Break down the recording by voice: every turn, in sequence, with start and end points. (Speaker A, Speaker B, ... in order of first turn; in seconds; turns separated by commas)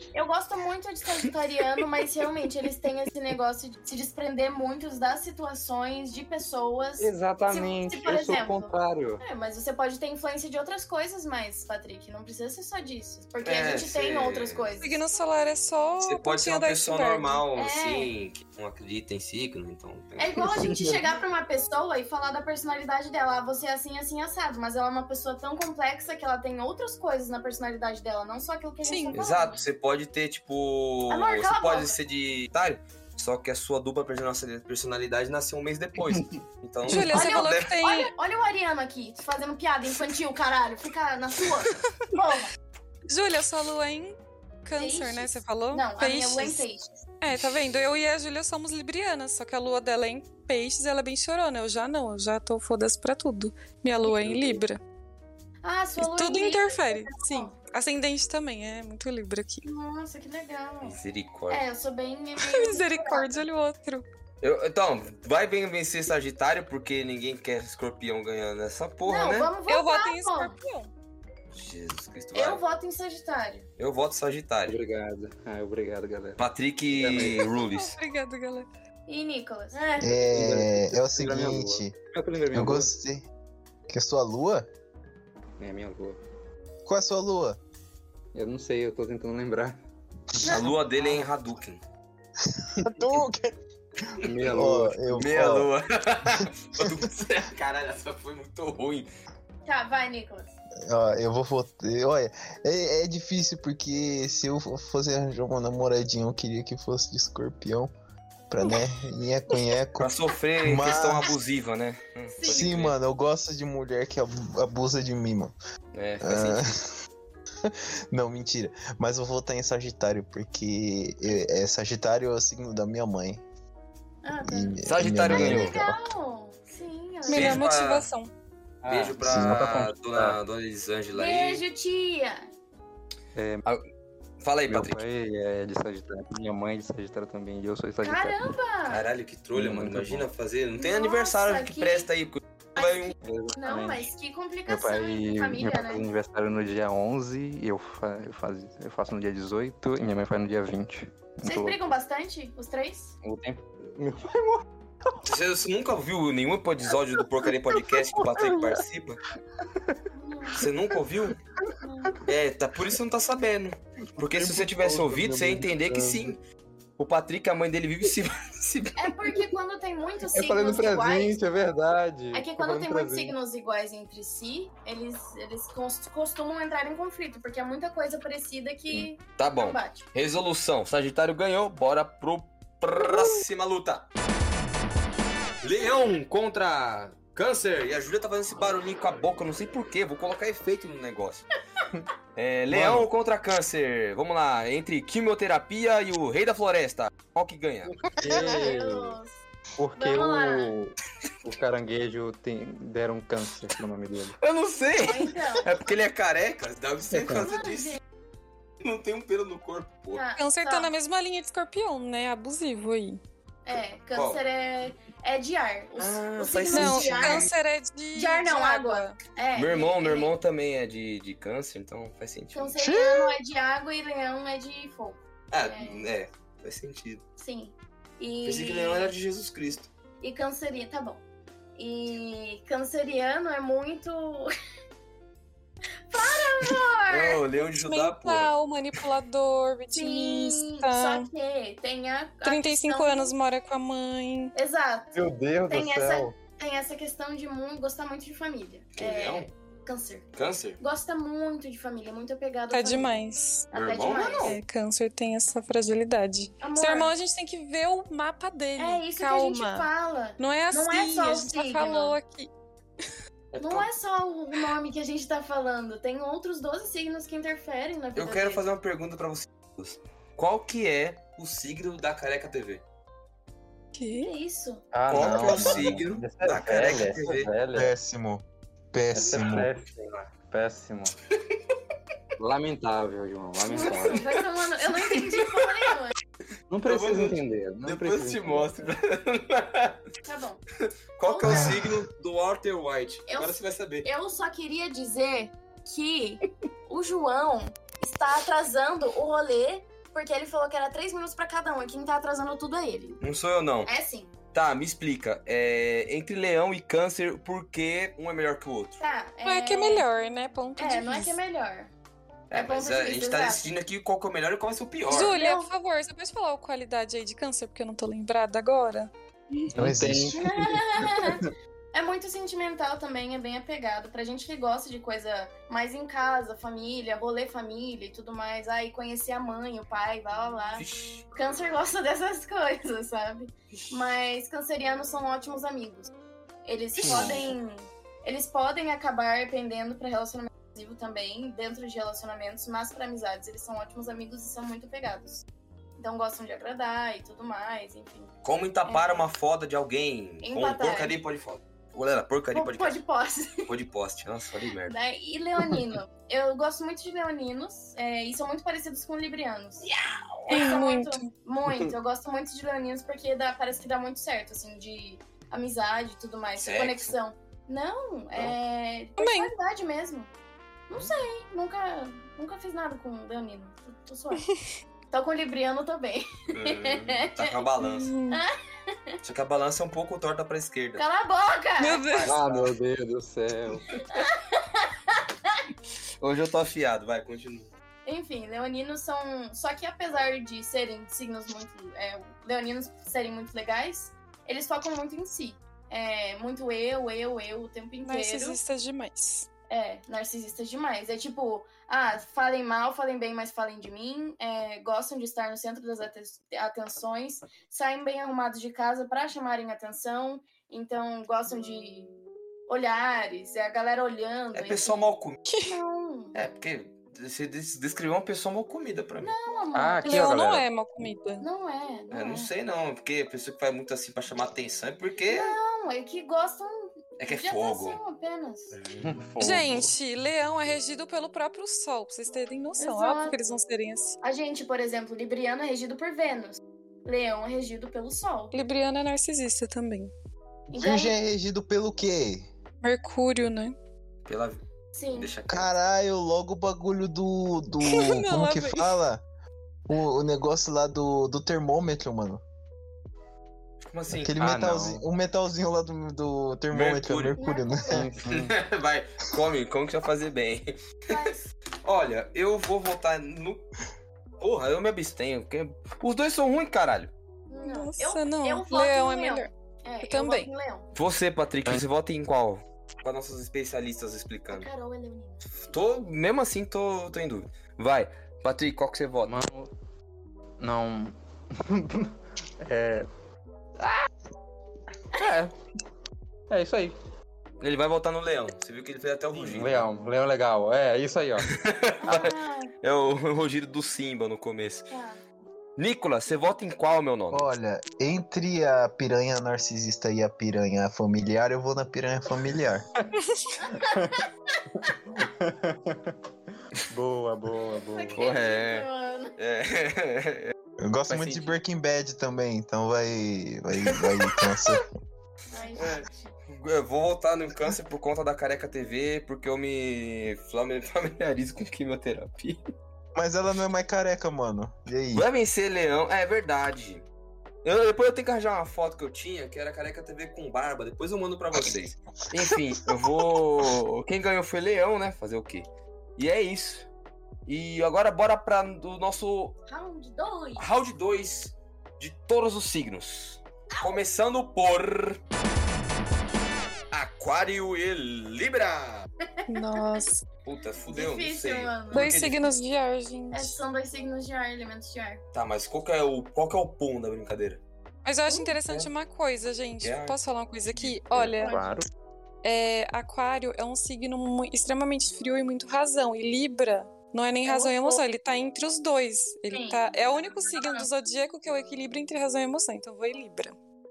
Speaker A: 0.1-15.0, Speaker B: 7.0-9.2, Speaker C: 13.4-14.8, Speaker D: 14.8-17.4, Speaker C: 16.0-20.4, Speaker A: 17.5-18.1, Speaker A: 20.2-29.6, Speaker B: 20.4-21.0, Speaker D: 28.8-29.2, Speaker C: 29.1-37.7, Speaker A: 31.1-32.0, Speaker D: 36.9-38.1, Speaker A: 37.1-42.5, Speaker D: 43.1-46.7, Speaker A: 44.8-47.0, Speaker D: 47.2-54.8, Speaker B: 54.3-54.5, Speaker A: 55.6-57.5, Speaker D: 56.0-59.6, Speaker A: 59.6-61.0, Speaker C: 60.8-61.6, Speaker A: 61.5-63.4, Speaker D: 62.4-64.0, Speaker C: 64.4-69.5, Speaker A: 69.0-70.5, Speaker D: 69.7-70.9, Speaker C: 71.5-72.6, Speaker A: 72.3-73.7, Speaker C: 73.8-74.8, Speaker B: 74.7-77.5, Speaker C: 76.4-78.0, Speaker D: 77.4-78.7, Speaker A: 79.1-80.2, Speaker E: 80.0-81.9, Speaker B: 80.2-82.9, Speaker E: 82.5-83.2, Speaker E: 83.9-84.7, Speaker B: 85.6-86.2, Speaker E: 86.8-87.6, Speaker B: 88.3-89.8, Speaker A: 90.4-90.7, Speaker C: 90.4-91.8, Speaker E: 92.8-93.5, Speaker E: 94.1-95.7, Speaker B: 94.2-95.3, Speaker C: 95.2-99.1, Speaker E: 96.3-97.0, Speaker A: 99.7-100.5, Speaker E: 100.8-107.9, Speaker E: 108.5-111.3, Speaker C: 110.0-113.0, Speaker A: 112.3-112.7, Speaker E: 112.5-115.5, Speaker C: 115.9-116.7, Speaker E: 116.2-116.8, Speaker E: 117.6-123.4, Speaker A: 124.2-127.7, Speaker E: 124.4-126.0, Speaker C: 124.8-125.8, Speaker D: 127.3-128.3, Speaker C: 127.3-128.1, Speaker B: 128.8-130.4, Speaker C: 128.9-131.6, Speaker E: 129.2-129.6, Speaker A: 131.1-132.5, Speaker B: 133.3-133.6, Speaker C: 134.4-135.0, Speaker B: 134.7-138.5, Speaker A: 138.0-139.1, Speaker C: 138.9-143.1, Speaker B: 139.5-140.3, Speaker A: 140.8-142.1, Speaker A: 142.8-146.1, Speaker B: 143.2-144.1, Speaker B: 144.7-151.8, Speaker A: 151.4-153.2, Speaker B: 153.2-154.6, Speaker C: 155.2-159.2, Speaker B: 157.4-158.8, Speaker B: 159.6-160.0, Speaker A: 160.1-160.6, Speaker C: 160.6-161.4, Speaker B: 161.6-162.2, Speaker A: 161.8-162.1, Speaker C: 162.2-166.4, Speaker B: 164.2-166.3, Speaker C: 167.0-169.1, Speaker A: 168.9-171.4, Speaker B: 170.3-173.3, Speaker A: 172.3-180.1, Speaker C: 179.4-184.1, Speaker C: 185.6-191.5, Speaker C: 192.3-198.0, Speaker B: 192.7-193.1, Speaker B: 198.0-199.2, Speaker A: 198.2-199.4, Speaker B: 199.8-204.3, Speaker A: 199.9-200.7, Speaker C: 204.4-208.0, Speaker A: 204.9-205.7, Speaker B: 207.1-207.5, Speaker A: 207.3-208.0, Speaker C: 208.8-210.2, Speaker A: 210.1-210.9, Speaker D: 210.4-213.2, Speaker A: 213.6-217.5, Speaker C: 214.1-214.4, Speaker C: 216.0-217.5, Speaker D: 216.7-219.2, Speaker A: 218.1-220.3, Speaker C: 219.5-222.7, Speaker A: 222.5-226.1, Speaker E: 222.8-223.4, Speaker C: 225.5-227.2, Speaker A: 227.4-229.1, Speaker C: 228.4-229.9, Speaker A: 230.2-231.2, Speaker A: 231.8-234.5, Speaker A: 236.1-237.4, Speaker C: 237.1-238.5, Speaker D: 237.8-241.3, Speaker A: 239.9-243.3, Speaker D: 242.4-244.5, Speaker A: 244.5-250.3, Speaker B: 245.1-246.4, Speaker C: 248.9-249.5, Speaker C: 250.3-250.8, Speaker A: 250.8-253.2, Speaker D: 252.7-253.7, Speaker A: 253.7-254.6, Speaker C: 253.7-254.6, Speaker D: 254.4-262.5, Speaker A: 256.6-257.1, Speaker A: 258.8-262.2, Speaker C: 263.5-263.9, Speaker A: 263.6-268.6, Speaker C: 268.1-272.8, Speaker D: 273.9-274.3, Speaker A: 274.2-274.8, Speaker B: 274.9-277.9, Speaker C: 275.1-277.5, Speaker A: 275.4-275.7, Speaker E: 277.7-279.7, Speaker B: 279.1-281.1, Speaker B: 282.4-284.3, Speaker A: 283.6-286.1, Speaker C: 285.1-285.6, Speaker B: 286.7-288.8, Speaker C: 286.8-290.0, Speaker A: 290.2-290.6, Speaker C: 291.2-294.1, Speaker A: 291.2-291.8, Speaker E: 291.4-291.9, Speaker A: 293.3-303.2, Speaker C: 303.2-303.9, Speaker A: 303.8-304.3, Speaker C: 304.5-309.0, Speaker A: 309.0-310.1, Speaker D: 309.4-311.4, Speaker A: 310.8-311.9, Speaker C: 312.5-315.4, Speaker A: 312.5-313.7, Speaker A: 315.1-315.7, Speaker D: 315.1-319.6, Speaker B: 319.7-321.5, Speaker E: 319.8-320.4, Speaker A: 320.3-336.1, Speaker C: 330.8-331.2, Speaker A: 336.6-345.4, Speaker C: 337.0-337.5, Speaker A: 346.0-348.3, Speaker C: 348.4-353.0, Speaker A: 348.8-349.3, Speaker A: 350.4-351.1, Speaker A: 352.5-353.7, Speaker C: 353.6-354.9, Speaker A: 354.9-359.8, Speaker C: 359.8-360.7, Speaker A: 360.5-370.3, Speaker D: 360.5-361.2, Speaker C: 366.6-367.1, Speaker D: 369.2-369.5, Speaker A: 370.9-374.4, Speaker A: 375.1-377.6, Speaker C: 376.5-378.1, Speaker D: 377.8-378.4, Speaker A: 378.3-379.2, Speaker C: 379.2-381.0, Speaker A: 381.0-382.2, Speaker D: 381.8-382.3, Speaker C: 382.1-382.7, Speaker B: 382.2-384.0, Speaker A: 384.1-385.6, Speaker C: 386.2-387.7, Speaker A: 388.1-398.6, Speaker D: 398.0-399.5, Speaker A: 399.7-412.1, Speaker A: 412.7-415.1, Speaker C: 414.5-415.4, Speaker D: 415.5-415.8, Speaker A: 415.6-416.4, Speaker C: 416.3-419.3, Speaker A: 419.2-420.3, Speaker B: 419.7-420.6, Speaker D: 420.0-421.4, Speaker A: 421.4-422.5, Speaker C: 422.1-425.6, Speaker A: 425.2-428.7, Speaker C: 427.2-428.0, Speaker C: 428.7-429.1, Speaker B: 429.0-429.9, Speaker D: 429.4-434.2, Speaker A: 432.8-433.4, Speaker A: 434.2-438.5, Speaker D: 438.5-440.1, Speaker A: 440.7-441.1, Speaker E: 440.7-442.5, Speaker D: 442.8-443.8, Speaker C: 444.2-445.7, Speaker A: 444.9-445.3, Speaker E: 445.5-449.2, Speaker D: 447.8-448.9, Speaker E: 449.9-452.4, Speaker C: 453.8-454.4, Speaker E: 454.1-458.1, Speaker B: 454.4-455.0, Speaker C: 456.7-457.4, Speaker A: 457.4-458.1, Speaker B: 457.9-458.5, Speaker C: 458.3-461.3, Speaker A: 461.1-461.5, Speaker C: 461.8-463.6, Speaker C: 464.4-467.1, Speaker A: 467.5-470.9, Speaker D: 467.6-469.5, Speaker D: 470.0-470.5, Speaker C: 470.9-474.7, Speaker A: 474.5-475.5, Speaker C: 475.6-479.4, Speaker B: 479.2-479.7, Speaker B: 480.6-483.1, Speaker B: 483.8-484.1, Speaker B: 485.1-485.5, Speaker B: 486.5-486.9, Speaker C: 487.6-489.9, Speaker B: 489.4-491.5, Speaker C: 491.5-494.9, Speaker A: 492.0-492.7, Speaker A: 494.9-495.2, Speaker C: 495.8-497.5, Speaker E: 497.3-502.8, Speaker A: 503.6-504.9, Speaker B: 503.7-504.2, Speaker B: 504.8-506.1, Speaker B: 506.9-508.3, Speaker A: 507.7-509.4, Speaker C: 508.1-510.5, Speaker E: 510.8-514.9, Speaker C: 511.1-511.5, Speaker C: 513.8-514.7, Speaker A: 515.5-516.3, Speaker C: 515.8-522.6, Speaker E: 523.1-525.3, Speaker C: 525.1-527.0, Speaker C: 527.6-536.9, Speaker C: 537.5-539.5, Speaker A: 539.7-540.6, Speaker C: 540.6-545.2, Speaker A: 543.7-544.0, Speaker C: 546.9-549.1, Speaker A: 549.3-550.0, Speaker D: 549.5-550.2, Speaker C: 550.4-552.6, Speaker A: 550.9-552.1, Speaker D: 551.9-553.6, Speaker A: 553.3-555.2, Speaker C: 555.3-557.6, Speaker D: 558.0-561.6, Speaker A: 558.3-558.5, Speaker C: 558.6-558.9, Speaker C: 559.8-561.4, Speaker A: 561.4-561.7, Speaker B: 561.4-561.9, Speaker D: 562.4-573.5, Speaker A: 567.4-568.0, Speaker A: 569.5-569.8, Speaker A: 570.5-570.9